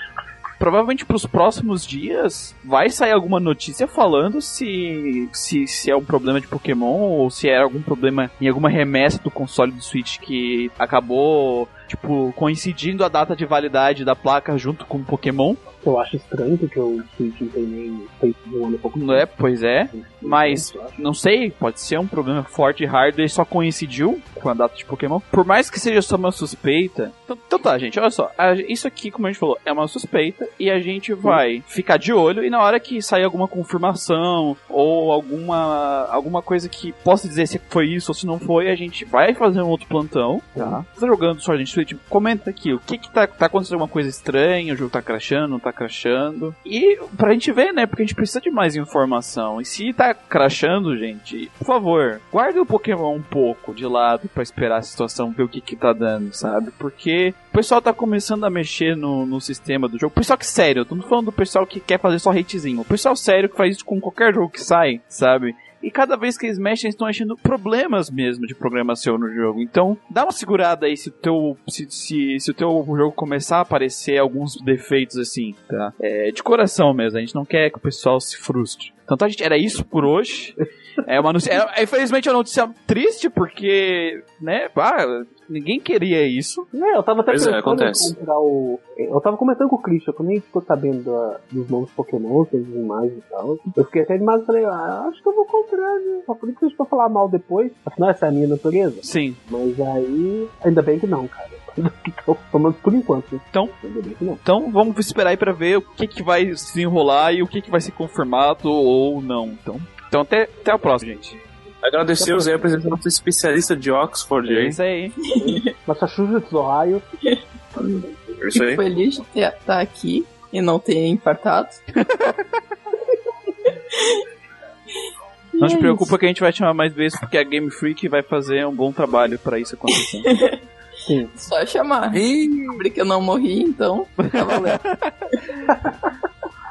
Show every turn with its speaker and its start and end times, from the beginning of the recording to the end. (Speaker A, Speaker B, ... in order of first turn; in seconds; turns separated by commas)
Speaker A: 0.6-15.6, Speaker B: 15.8-19.3, Speaker A: 18.9-86.6, Speaker B: 19.9-21.0, Speaker B: 40.5-40.8, Speaker B: 86.7-104.4, Speaker C: 87.3-88.1, Speaker A: 99.0-99.4, Speaker A: 104.4-111.4, Speaker C: 111.8-114.8, Speaker B: 112.2-113.0, Speaker A: 114.4-115.1, Speaker D: 115.3-115.6, Speaker B: 115.8-117.0, Speaker D: 117.3-121.8, Speaker C: 118.4-118.8, Speaker A: 121.9-122.6, Speaker D: 123.7-124.2, Speaker D: 125.5-126.1, Speaker A: 125.6-130.3, Speaker D: 129.9-130.6, Speaker B: 131.0-131.4, Speaker D: 131.4-134.8, Speaker C: 132.1-132.7, Speaker A: 134.2-135.3